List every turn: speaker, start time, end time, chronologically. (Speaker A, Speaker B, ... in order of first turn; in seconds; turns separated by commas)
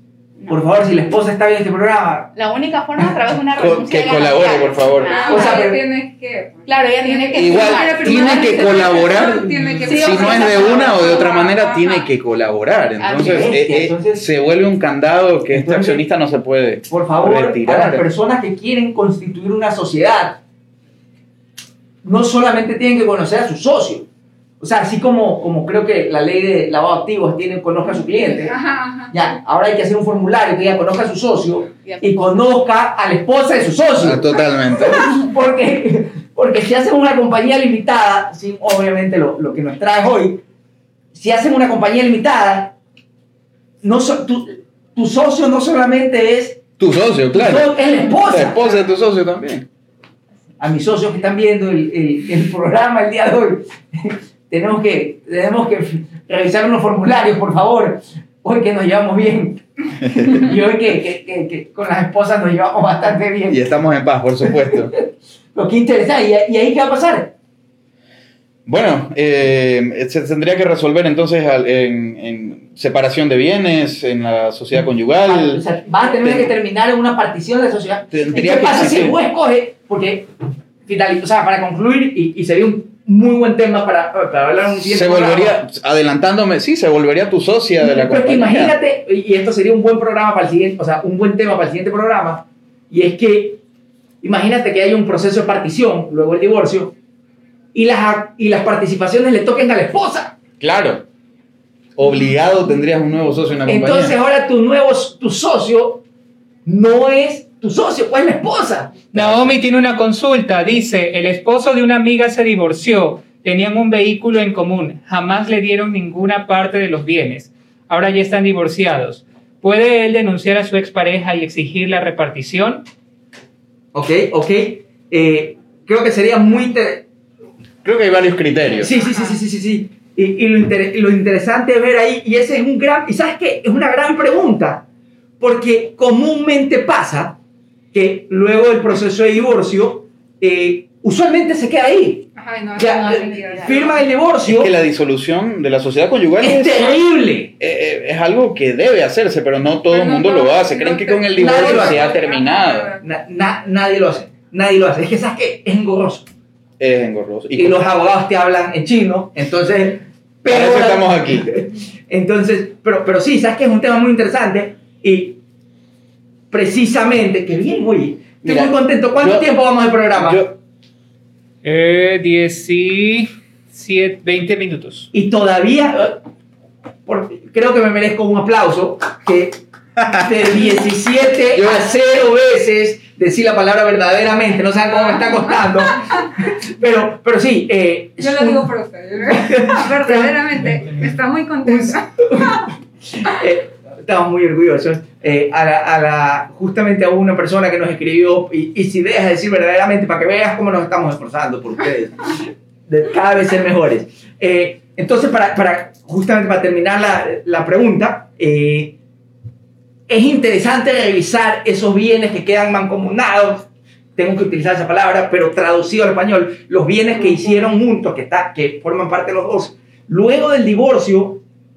Speaker A: 0.5-2.3, Speaker B: 2.3-5.6, Speaker C: 3.6-5.1, Speaker D: 5.0-12.1, Speaker A: 5.3-5.8, Speaker B: 6.7-8.8, Speaker C: 7.3-18.1, Speaker B: 9.8-11.3, Speaker B: 13.0-13.5, Speaker A: 13.2-14.2, Speaker A: 15.5-16.0, Speaker A: 16.9-20.4, Speaker A: 22.0-24.1, Speaker A: 24.6-28.6, Speaker D: 28.2-29.1, Speaker A: 29.1-34.2, Speaker B: 31.8-32.4, Speaker C: 34.0-35.1, Speaker A: 34.8-40.4, Speaker A: 41.1-42.7, Speaker A: 43.8-46.6, Speaker C: 46.8-47.7, Speaker A: 47.3-48.7, Speaker C: 48.2-49.7, Speaker A: 50.6-63.7, Speaker C: 63.5-64.9, Speaker A: 64.5-65.0, Speaker A: 65.5-67.3, Speaker C: 68.7-75.6, Speaker A: 75.2-80.3, Speaker C: 76.2-76.5, Speaker C: 78.1-79.2, Speaker A: 80.8-85.5, Speaker C: 84.8-88.8, Speaker A: 87.8-93.6, Speaker A: 94.2-96.9, Speaker A: 97.7-100.3, Speaker C: 100.6-101.0, Speaker C: 102.0-104.2, Speaker A: 103.7-106.0, Speaker A: 106.6-109.1, Speaker E: 109.1-122.8, Speaker C: 109.1-109.6, Speaker A: 123.9-127.0, Speaker C: 127.8-128.9, Speaker A: 128.8-134.8, Speaker D: 129.0-129.4, Speaker A: 135.4-137.4, Speaker A: 137.9-144.7, Speaker D: 142.3-144.0, Speaker B: 142.9-143.9, Speaker C: 144.4-147.0, Speaker A: 146.4-147.5, Speaker C: 147.6-152.9, Speaker D: 149.9-153.0, Speaker A: 151.4-152.1, Speaker A: 153.0-156.3, Speaker C: 156.8-157.9, Speaker A: 157.6-165.4, Speaker C: 160.5-161.6, Speaker A: 166.5-170.4, Speaker C: 168.4-169.5, Speaker C: 170.2-170.6, Speaker E: 171.6-175.1, Speaker A: 175.1-176.2, Speaker A: 177.1-179.6, Speaker C: 180.0-180.3, Speaker A: 180.1-188.7, Speaker C: 181.5-182.0, Speaker D: 184.7-186.2, Speaker D: 188.2-192.7, Speaker A: 189.3-190.3, Speaker A: 191.7-208.9, Speaker A: 210.1-221.4